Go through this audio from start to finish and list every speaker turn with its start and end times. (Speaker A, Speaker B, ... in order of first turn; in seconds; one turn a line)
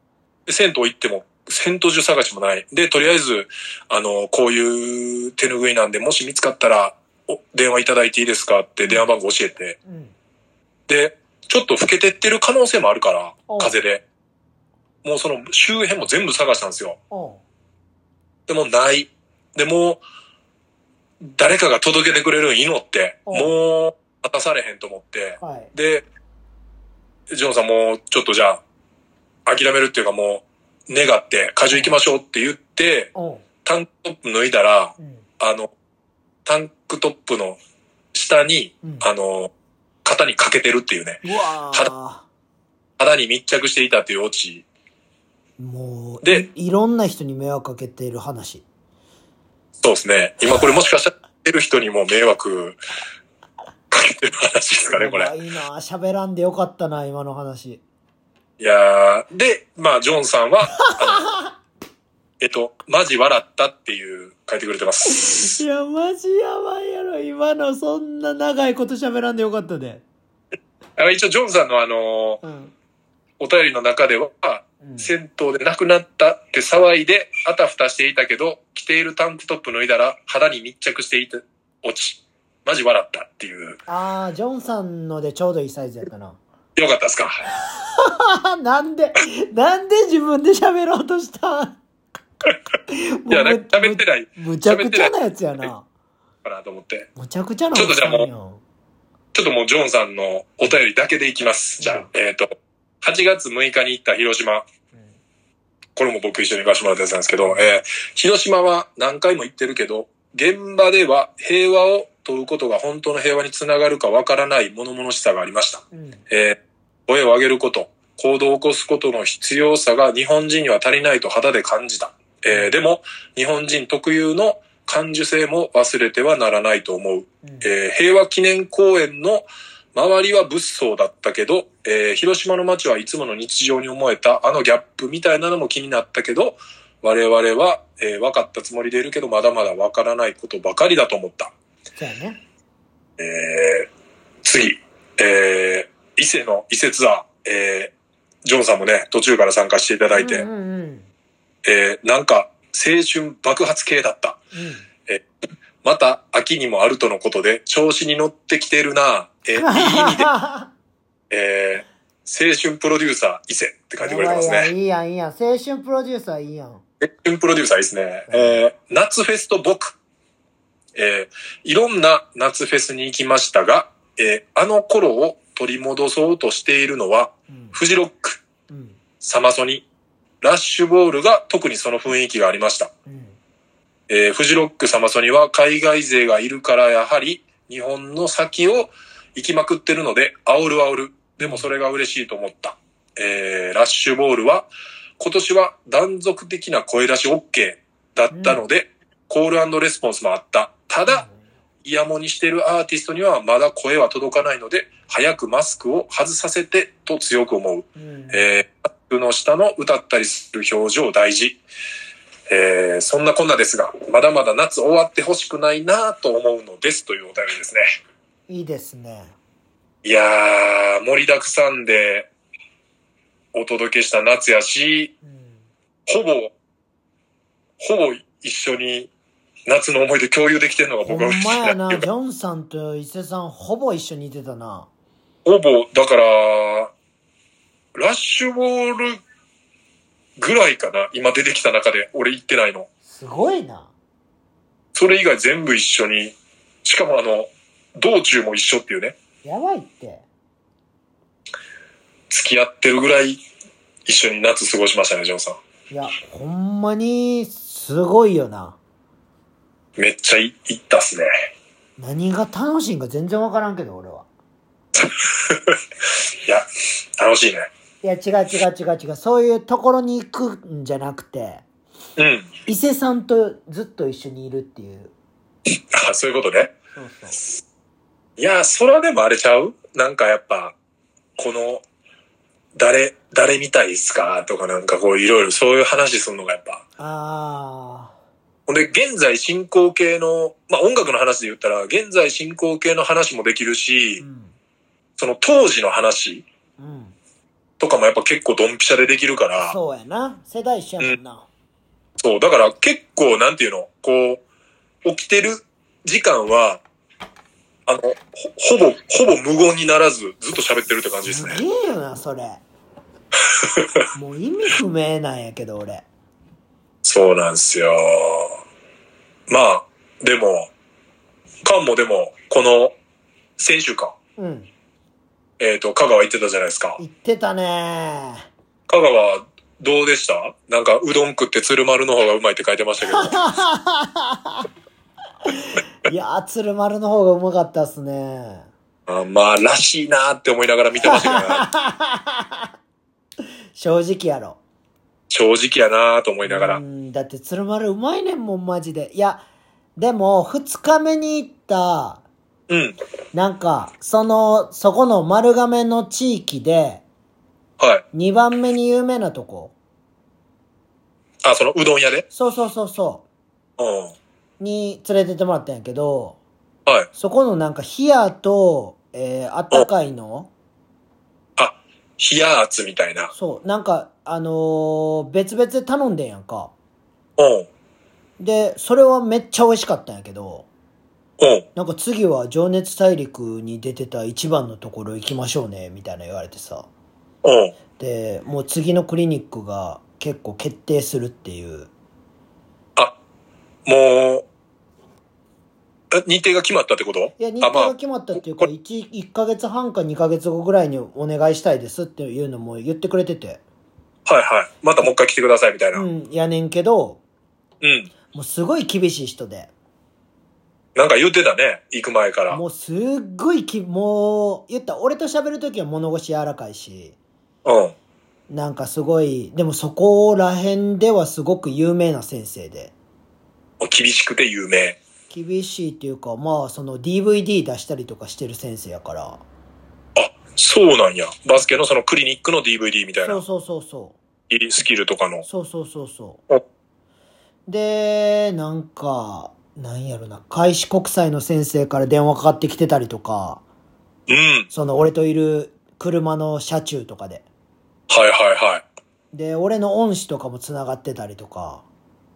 Speaker A: 0.5-9.8
Speaker B: 9.8-10.1
Speaker A: 10.9-14.0
Speaker B: 13.5-13.8
Speaker A: 15.0-17.0
Speaker B: 17.1-17.4
Speaker A: 18.5-20.0
Speaker A: 21.2-26.1
Speaker B: 23.3-23.6
Speaker B: 25.4-25.7
Speaker A: 27.3-28.6
Speaker A: 29.4-33.1
Speaker B: 33.1-33.4
Speaker A: 33.6-35.7
Speaker B: 35.0-35.2
Speaker A: 36.4-37.6
Speaker A: 38.1-39.5
Speaker A: 40.0-41.9
Speaker B: 41.2-42.3
Speaker A: 43.0-44.6
Speaker B: 45.6-48.6
Speaker A: 49.8-52.8
Speaker A: 53.9-55.3
Speaker B: 54.9-57.8
Speaker A: 58.6-61.3
Speaker B: 60.8-61.5
Speaker A: 62.4-65.6
Speaker B: 65.0-70.0
Speaker A: 71.0-72.4
Speaker B: 72.4-72.7
Speaker A: 73.4-83.8
Speaker B: 74.8-75.1
Speaker B: 83.9-86.4
Speaker A: 86.8-87.4
Speaker B: 87.5-91.8
Speaker B: 92.9-95.8
Speaker A: 93.3-95.1
Speaker A: 96.4-97.1
Speaker B: 97.2-98.6
Speaker A: 97.7-98.3
Speaker A: 99.3-104.7
Speaker B: 101.8-102.1
Speaker A: 106.0-141.5
Speaker B: 115.9-116.2
Speaker B: 127.4-127.7
Speaker B: 142.0-142.4
Speaker A: 143.2-143.9
Speaker A: 144.4-150.5
Speaker B: 150.1-151.1
Speaker A: 151.6-154.4
Speaker B: 154.5-154.8
Speaker A: 155.8-160.3
Speaker B: 159.5-160.7
Speaker A: 161.3-164.7
Speaker B: 164.0-166.8
Speaker A: 167.0-169.9
Speaker B: 168.3-168.6
Speaker A: 170.9-178.4
Speaker B: 177.5-177.8
Speaker B: 178.7-179.0
Speaker A: 179.2-179.8
Speaker A: 180.4-182.9
Speaker B: 183.1-183.4
Speaker A: 184.1-201.2
Speaker B: 191.4-191.7
Speaker B: 198.3-198.6
Speaker B: 201.1-201.4
Speaker A: 201.8-211.6
Speaker B: 207.9-208.4
Speaker A: 212.5-217.8
Speaker B: 218.5-219.3
Speaker A: 220.0-222.3
Speaker A: 223.5-225.1
Speaker B: 225.3-225.5
Speaker A: 226.1-226.5
Speaker A: 227.8-229.1
Speaker A: 229.7-232.0
Speaker B: 231.1-234.9
Speaker A: 235.4-236.9
Speaker A: 237.9-239.2
Speaker A: 240.4-242.9
Speaker B: 243.0-243.9
Speaker A: 244.9-249.2
Speaker B: 249.4-250.2
Speaker A: 252.3-253.4
Speaker A: 254.1-255.6
Speaker B: 255.9-258.8
Speaker A: 260.0-261.3
Speaker B: 262.0-264.3
Speaker A: 264.9-266.7
Speaker A: 267.2-267.7
Speaker B: 268.0-271.6
Speaker A: 272.2-272.5
Speaker B: 272.6-275.1
Speaker A: 275.7-276.7
Speaker B: 276.9-277.4
Speaker A: 278.4-280.7
Speaker A: 281.4-281.8
Speaker A: 282.8-286.8
Speaker B: 287.0-288.1
Speaker A: 288.7-294.2
Speaker B: 294.2-294.5
Speaker A: 295.2-296.4
Speaker B: 296.8-297.1
Speaker A: 297.8-299.7
Speaker B: 299.6-301.5
Speaker A: 302.2-304.4
Speaker A: 305.0-306.8
Speaker A: 307.9-311.6
Speaker B: 311.2-312.6
Speaker A: 313.6-314.0
Speaker B: 314.1-316.0
Speaker A: 317.0-318.6
Speaker A: 319.5-320.7
Speaker A: 321.6-322.9
Speaker A: 323.6-324.1
Speaker B: 324.4-324.7
Speaker A: 325.6-327.0
Speaker B: 327.0-328.5
Speaker A: 328.9-333.5
Speaker B: 333.1-334.6
Speaker B: 335.4-338.7
Speaker A: 339.1-341.7
Speaker B: 341.0-342.7
Speaker B: 343.7-344.6
Speaker A: 345.3-346.8
Speaker B: 346.4-349.4
Speaker B: 350.0-352.2
Speaker A: 352.7-352.9
Speaker B: 353.3-357.0
Speaker A: 357.8-358.0
Speaker B: 358.1-359.7
Speaker A: 361.4-362.2
Speaker B: 362.3-363.2
Speaker A: 363.8-364.1
Speaker B: 364.6-366.4
Speaker B: 367.1-370.5
Speaker A: 371.6-373.3
Speaker B: 373.3-376.7
Speaker A: 377.4-377.7
Speaker B: 378.4-380.7
Speaker A: 381.4-381.7
Speaker B: 381.7-386.9
Speaker A: 387.4-387.7
Speaker B: 388.0-391.9
Speaker A: 393.8-394.4
Speaker A: 396.1-397.9
Speaker B: 397.4-403.6
Speaker A: 404.2-406.0
Speaker B: 405.9-407.2
Speaker A: 407.8-408.1
Speaker B: 408.3-409.7
Speaker A: 410.9-412.6
Speaker B: 412.5-417.1
Speaker A: 417.6-417.9
Speaker B: 418.5-422.9
Speaker A: 423.8-425.0
Speaker B: 425.3-429.4
Speaker A: 430.1-433.4
Speaker B: 433.2-434.2
Speaker A: 434.5-435.4
Speaker B: 435.4-436.4
Speaker B: 437.7-443.6
Speaker A: 444.3-444.7
Speaker B: 444.7-447.4
Speaker A: 448.1-448.8
Speaker B: 449.3-451.8